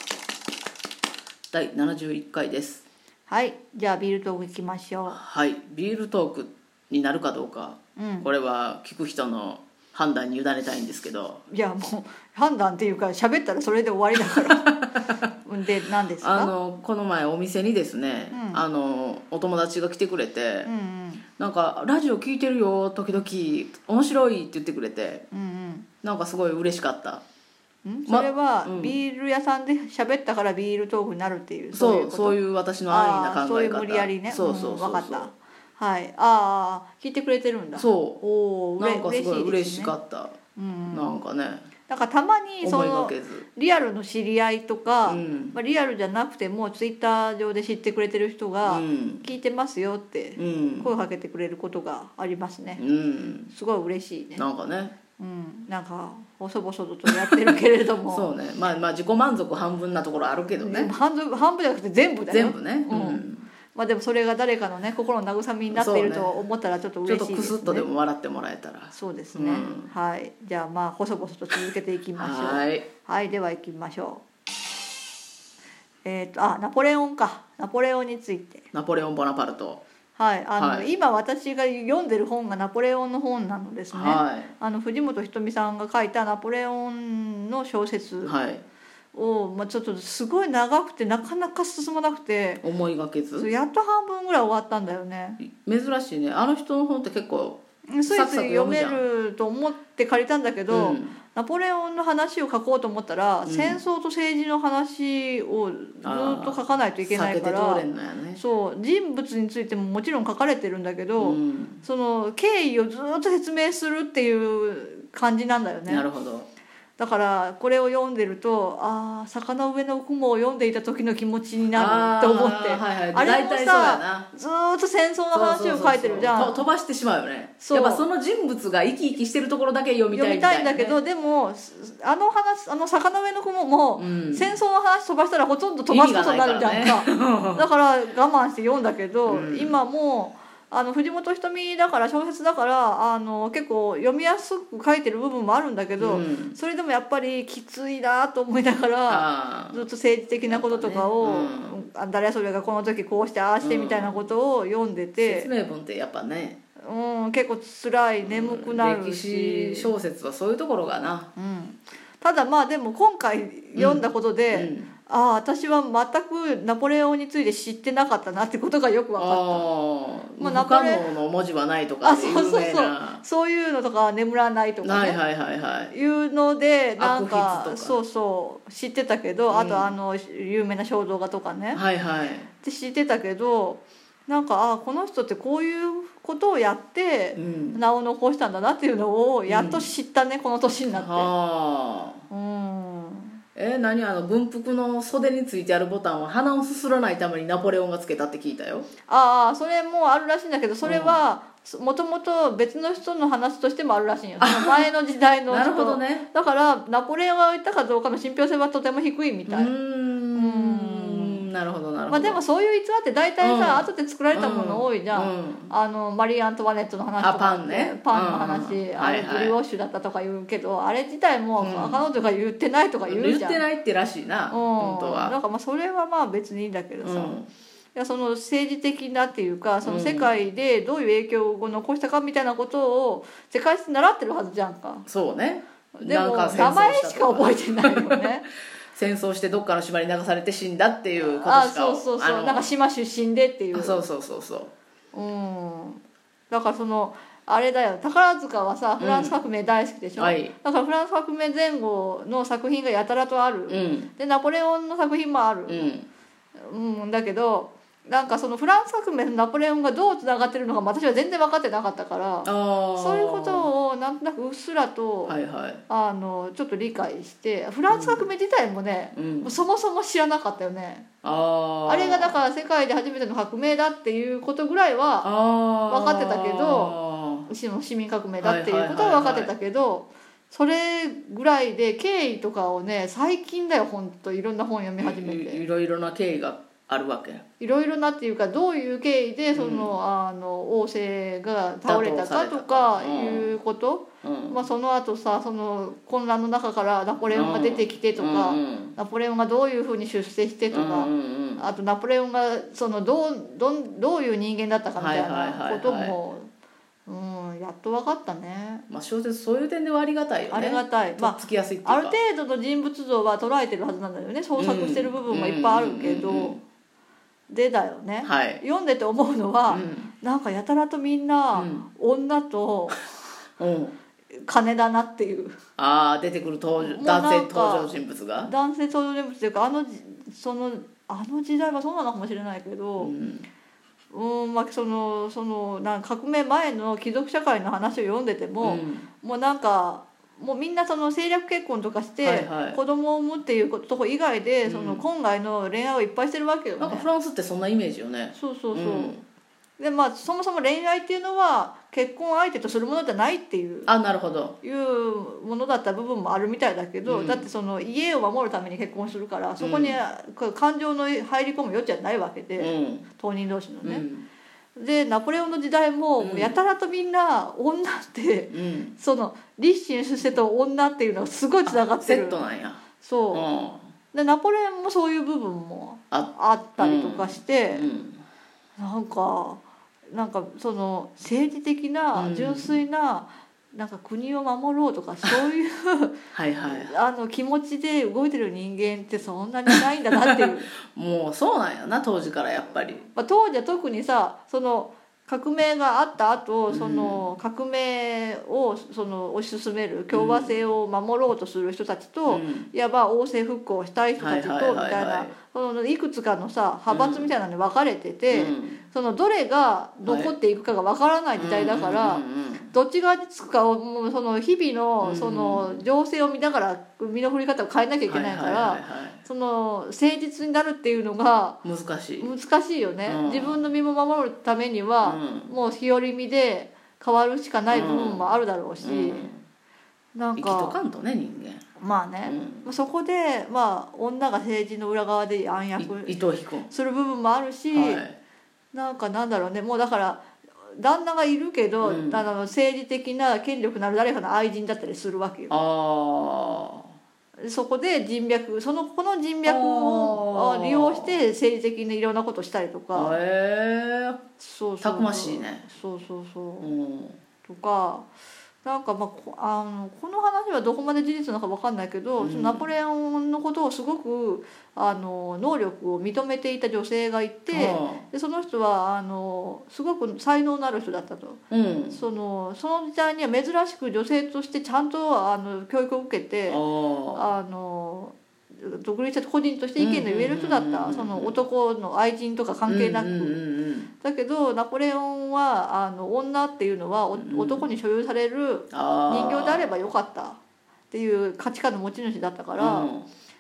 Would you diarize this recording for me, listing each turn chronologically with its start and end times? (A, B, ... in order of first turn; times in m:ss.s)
0:01.5-0:02.8 A
0:03.3-0:05.2 B
0:05.1-0:11.4 A
0:08.0-0:08.3 B
0:11.5-0:14.7 B
0:14.3-0:15.3 A
0:15.4-0:16.5 B
0:16.2-0:20.7 A
0:18.3-0:18.6 B
0:20.6-0:21.2 B
0:21.4-0:25.3 A
0:25.3-0:25.9 B
0:26.0-0:27.2 A
0:27.8-0:40.0 B
0:28.1-0:29.0 A
0:31.7-0:35.3 A
0:37.8-0:38.2 A
0:38.8-0:40.4 A
0:40.6-0:41.1 B
0:40.9-0:41.7 A
0:41.9-0:52.8 B
0:42.6-0:43.4 A
0:45.0-0:45.6 A
0:48.7-0:49.2 A
0:50.4-0:50.9 A
0:52.8-0:53.5 A
0:53.5-0:54.4 B
0:54.4-0:55.0 A
0:55.2-0:58.3 B
0:57.1-0:57.5 A
0:58.1-1:00.9 A
1:00.6-1:07.9 B
1:02.3-1:03.5 A
1:05.7-1:06.3 A
1:07.0-1:09.9 A
1:08.9-1:14.2 B
1:12.2-1:12.9 A
1:16.0-1:18.7 B
1:18.7-1:19.8 A
1:20.2-1:28.3 B
1:20.6-1:20.9 A
1:23.9-1:24.5 A
1:28.2-1:28.6 A
1:29.1-1:32.6 B
1:32.6-1:33.5 A
1:33.4-1:35.4 B
1:35.4-1:39.0 A
1:37.9-1:47.8 B
1:40.7-1:41.2 A
1:43.5-1:43.8 A
1:46.0-1:48.4 A
1:48.4-1:56.1 B
1:51.2-1:51.8 A
1:55.9-1:56.5 A
1:57.0-2:06.7 B
2:01.7-2:04.3 A
2:05.3-2:11.0 A
2:07.6-2:08.1 B
2:10.1-2:35.5 B
2:14.0-2:14.5 A
2:15.9-2:17.6 A
2:19.3-2:19.8 A
2:26.0-2:26.6 A
2:29.1-2:29.9 A
2:30.4-2:31.8 A
2:33.6-2:34.2 A
2:35.2-2:36.6 A
2:36.8-2:39.9 B
2:38.2-2:41.3 A
2:41.4-2:49.7 B
2:43.8-2:44.9 A
2:49.2-2:53.2 A
2:50.4-2:51.1 B
2:52.0-2:55.2 B
2:54.8-2:55.9 A
2:55.9-3:01.8 B
2:57.0-2:58.0 A
2:59.5-3:00.0 A
3:01.7-3:02.5 A
3:02.6-3:11.3 B
3:07.4-3:07.8 A
3:09.5-3:09.9 A
3:10.9-3:12.2 A
3:12.3-3:13.4 B
3:13.6-3:18.9 A
3:19.1-3:29.7 B
3:20.8-3:21.2 A
3:24.4-3:24.9 A
3:25.5-3:26.3 A
3:29.5-3:32.4 A
3:30.4-3:31.4 B
3:32.1-3:43.6 B
3:33.4-3:35.7 A
3:37.2-3:39.6 A
3:41.6-3:42.0 A
3:43.1-3:45.4 A
3:44.5-3:47.4 B
3:47.0-3:47.5 A
3:48.0-3:55.1 B
3:49.8-3:50.3 A
3:55.1-3:58.3 A
3:56.0-3:58.4 B
3:58.9-4:02.7 A
4:01.2-4:04.0 B
4:03.7-4:04.7 A
4:05.1-4:15.9 B
4:09.0-4:09.4 A
4:10.2-4:10.5 A
4:13.7-4:14.1 A
4:15.7-4:16.1 A
4:16.6-4:25.4 B
4:22.4-4:23.7 A
4:25.3-4:25.8 A
4:25.9-4:31.1 B
4:27.9-4:28.2 A
4:29.2-4:29.5 A
4:31.2-4:32.4 A
4:31.9-4:35.3 B
4:35.2-4:37.5 A
4:35.9-4:37.0 B
4:37.5-4:45.6 B
4:38.4-4:39.5 A
4:45.0-4:47.4 A
4:47.6-5:06.5 B
4:49.5-4:50.0 A
4:51.8-4:53.6 A
4:54.2-4:54.6 A
4:57.3-4:59.0 A
5:00.7-5:01.7 A
5:05.0-5:06.2 A
5:07.1-5:08.9 B
5:08.9-5:12.2 A
5:10.5-5:16.6 B
5:14.6-5:16.6 A
5:17.5-5:23.2 B
5:18.2-5:18.6 A
5:19.7-5:20.1 A
5:21.5-5:21.9 A
5:23.6-5:24.0 A
5:24.4-5:25.6 B
5:25.8-5:28.5 A
5:26.8-5:33.1 B
5:33.0-5:33.5 A
5:34.1-5:47.1 B
5:38.6-5:39.1 A
5:42.2-5:42.8 A
5:44.7-5:45.0 A
5:46.8-5:49.2 A
5:48.4-5:49.2 B
5:49.8-5:53.9 B
5:53.9-5:54.6 A
5:54.6-6:04.0 B
5:57.1-5:57.4 A
5:59.6-6:00.0 A
6:02.6-6:03.1 A
6:03.8-6:04.3 A
6:04.8-6:12.4 B
6:06.2-6:06.5 A
6:08.5-6:09.0 A
6:11.7-6:13.9 A
6:13.0-6:13.5 B
6:14.1-6:17.9 B
6:16.1-6:18.2 A
6:18.8-6:30.7 B
6:22.2-6:22.8 A
6:26.3-6:26.9 A
6:30.9-6:33.1 A
6:33.2-7:01.6 B
6:36.7-6:37.2 A
6:40.1-6:40.6 A
6:42.3-6:42.7 A
6:44.2-6:45.3 A
6:46.9-6:47.3 A
6:48.3-6:48.8 A
6:50.1-6:50.4 A
6:51.4-6:52.7 A
6:55.0-6:55.7 A
6:58.1-6:59.2 A
7:01.6-7:02.3 A
7:02.2-7:09.3 B
7:03.0-7:03.6 A
7:05.0-7:05.5 A
7:07.7-7:08.3 A
7:08.8-7:09.4 A
7:10.2-7:10.8 B
7:10.4-7:11.6 A
7:11.8-7:18.0 B
7:12.2-7:12.7 A
7:15.8-7:16.7 A
7:17.7-7:18.2 A
7:18.7-7:25.5 B
7:21.8-7:22.3 A
7:25.5-7:27.0 A
7:27.4-7:33.2 B
7:29.4-7:31.2 A
7:32.9-7:34.2 A
7:34.4-7:36.7 B
7:34.8-7:35.7 A
7:36.6-7:37.2 A
7:37.4-7:38.1 B
7:38.6-7:56.6 B
7:42.2-7:42.7 A
7:47.5-7:48.0 A
7:51.5-7:52.0 A
7:56.5-7:57.3 A
7:57.2-8:03.4 B
7:59.8-8:01.4 A
8:02.7-8:03.9 A
8:04.0-8:10.4 B
8:07.1-8:07.7 A
8:08.7-8:09.7 A
8:10.9-8:12.9 B
8:12.6-8:13.1 A